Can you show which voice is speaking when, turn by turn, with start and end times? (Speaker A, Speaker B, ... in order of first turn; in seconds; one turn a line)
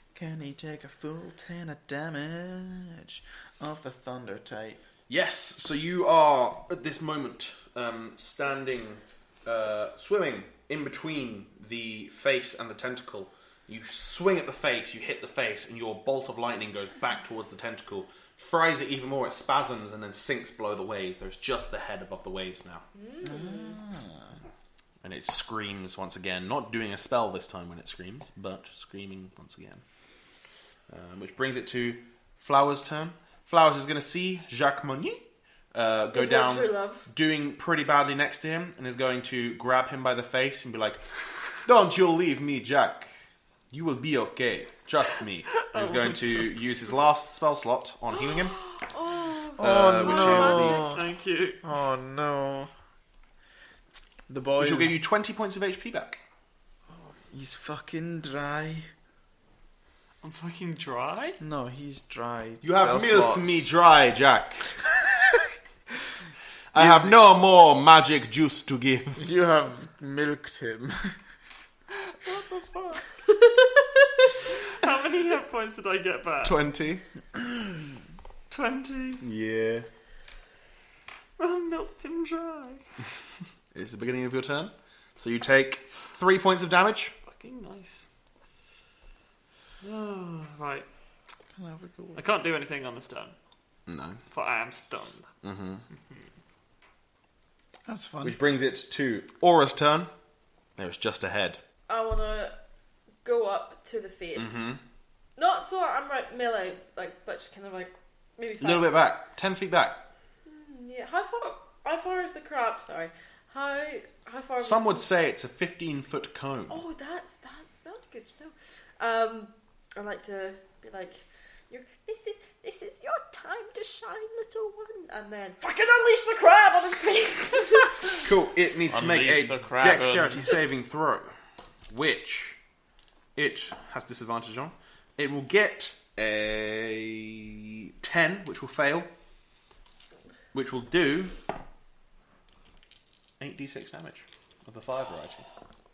Speaker A: 0.1-4.8
Speaker B: 5.1-22.8
Speaker C: 22.9-23.8
Speaker A: 23.2-24.3
Speaker B: 25.0-29.8
Speaker B: 30.9-41.0
Speaker C: 36.1-37.0
Speaker B: 41.6-43.1
Speaker B: 43.7-48.6
Speaker D: 45.6-46.6
Speaker C: 48.1-50.9
Speaker B: 49.6-50.9
Speaker A: 49.6-51.0
Speaker D: 50.8-51.6
Speaker A: 51.6-52.7
Speaker A: 54.3-54.9
Speaker B: 54.6-56.2
Speaker A: 57.2-58.9
Speaker D: 60.2-61.4
Speaker A: 61.4-63.7
Speaker B: 62.6-64.7
Speaker B: 66.7-69.2
Speaker A: 66.8-67.1
Speaker A: 69.2-71.2
Speaker A: 72.3-72.9
Speaker C: 73.4-74.0
Speaker D: 74.5-76.6
Speaker B: 76.4-77.0
Speaker D: 78.5-79.2
Speaker B: 79.2-79.9
Speaker D: 81.4-82.8
Speaker B: 83.7-87.1
Speaker D: 87.2-88.0
Speaker D: 89.8-90.9
Speaker A: 91.5-92.2
Speaker D: 92.1-93.3
Speaker B: 93.9-94.2
Speaker D: 94.3-95.3
Speaker B: 95.4-95.8
Speaker D: 96.0-96.2
Speaker A: 97.8-98.4
Speaker B: 98.2-100.1
Speaker B: 100.8-101.6
Speaker C: 101.9-102.5
Speaker C: 103.2-104.7
Speaker B: 104.3-104.8
Speaker C: 105.4-108.9
Speaker B: 108.6-110.1
Speaker C: 110.5-115.0
Speaker B: 114.6-116.8
Speaker C: 116.7-128.3
Speaker B: 128.2-131.3
Speaker A: 128.9-130.6
Speaker B: 131.9-132.6
Speaker B: 133.3-139.1
Speaker B: 140.5-141.3
Speaker B: 143.4-145.4